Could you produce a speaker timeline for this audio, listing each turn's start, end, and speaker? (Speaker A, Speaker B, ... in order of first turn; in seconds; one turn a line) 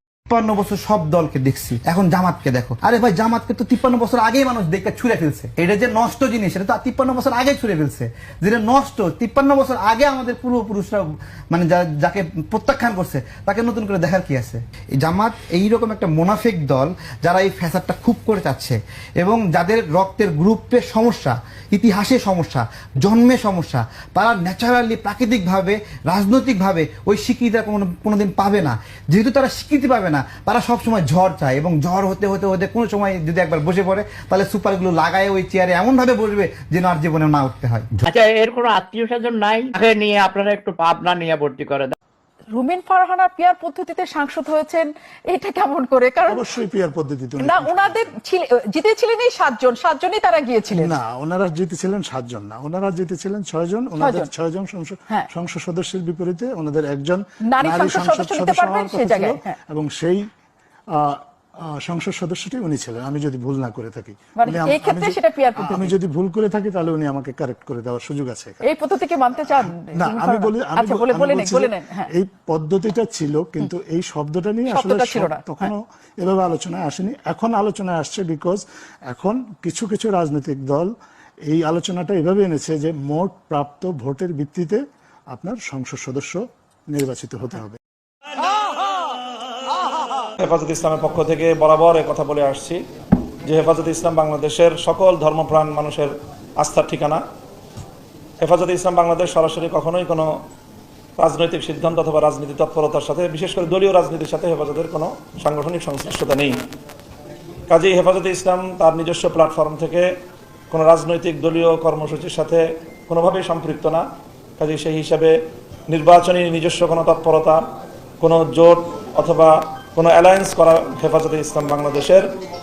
Speaker A: 0.3-37.9
Speaker B: 38.0-42.0
Speaker C: 42.5-46.7
Speaker D: 46.3-48.1
Speaker C: 47.4-51.0
Speaker D: 50.7-60.2
Speaker C: 54.0-54.3
Speaker C: 57.5-59.6
Speaker D: 61.0-61.2
Speaker D: 61.8-68.7
Speaker C: 64.4-65.9
Speaker C: 68.6-72.1
Speaker D: 69.5-80.9
Speaker C: 74.7-75.7
Speaker D: 81.5-84.8
Speaker D: 85.3-87.8
Speaker E: 90.4-92.8
Speaker E: 93.5-97.2
Speaker E: 98.4-100.3
Speaker E: 101.2-106.6
Speaker E: 107.7-110.1
Speaker E: 110.7-114.0
Speaker E: 114.6-115.4
Speaker E: 115.9-117.6
Speaker E: 118.2-122.2